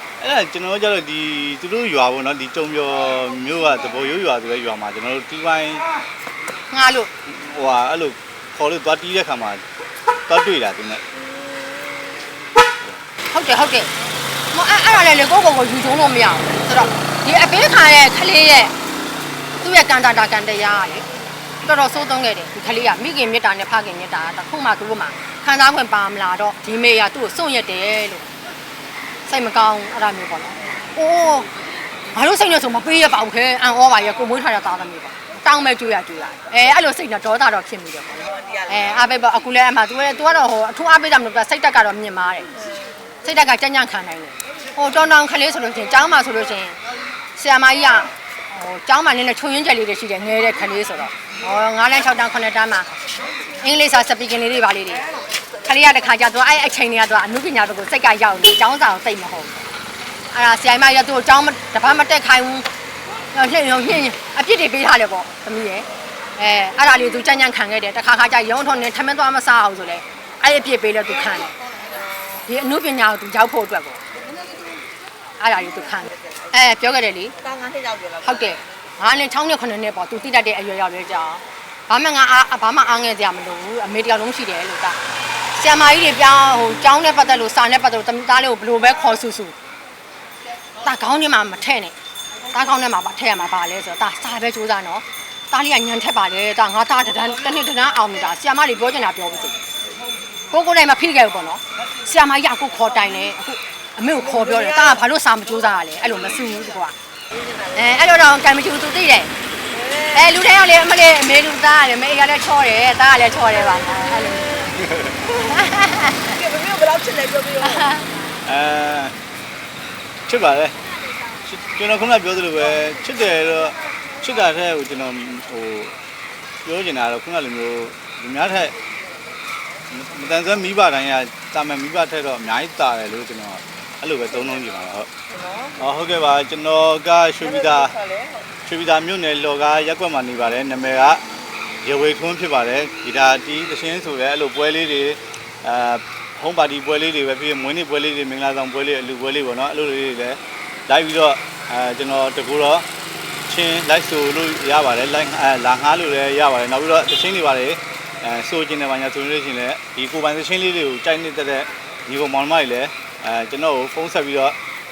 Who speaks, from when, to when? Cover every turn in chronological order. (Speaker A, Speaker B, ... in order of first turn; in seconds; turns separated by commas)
Speaker A: 0.2-5.8, Speaker B: 6.7-7.1, Speaker A: 7.2-9.6, Speaker A: 10.3-11.0, Speaker B: 13.3-13.9, Speaker B: 14.5-18.7, Speaker B: 19.6-21.1, Speaker B: 21.6-28.2, Speaker B: 29.3-31.5, Speaker B: 32.1-42.5, Speaker C: 38.2-39.1, Speaker B: 43.2-46.8, Speaker B: 47.4-52.9, Speaker B: 53.6-55.0, Speaker B: 55.6-59.6, Speaker B: 60.3-62.7, Speaker B: 63.3-71.5, Speaker C: 71.9-72.4, Speaker B: 72.5-74.0, Speaker B: 75.4-77.4, Speaker C: 76.0-76.6, Speaker C: 77.4-78.7, Speaker B: 78.2-85.0, Speaker B: 85.5-89.5, Speaker B: 90.8-91.9, Speaker B: 92.5-99.6, Speaker B: 100.5-106.9, Speaker C: 104.2-105.0, Speaker C: 107.3-108.1, Speaker B: 107.7-109.3, Speaker C: 109.7-110.3, Speaker B: 110.1-114.7, Speaker A: 114.7-115.2, Speaker B: 115.2-116.3, Speaker C: 116.1-117.9, Speaker B: 117.6-118.0, Speaker A: 118.4-119.1, Speaker A: 120.3-120.7, Speaker A: 121.4-125.9, Speaker A: 126.6-128.7, Speaker A: 129.9-135.1, Speaker C: 135.3-135.8, Speaker A: 135.8-137.9, Speaker C: 137.4-138.5, Speaker A: 138.6-141.2, Speaker A: 141.8-152.8, Speaker A: 153.5-164.6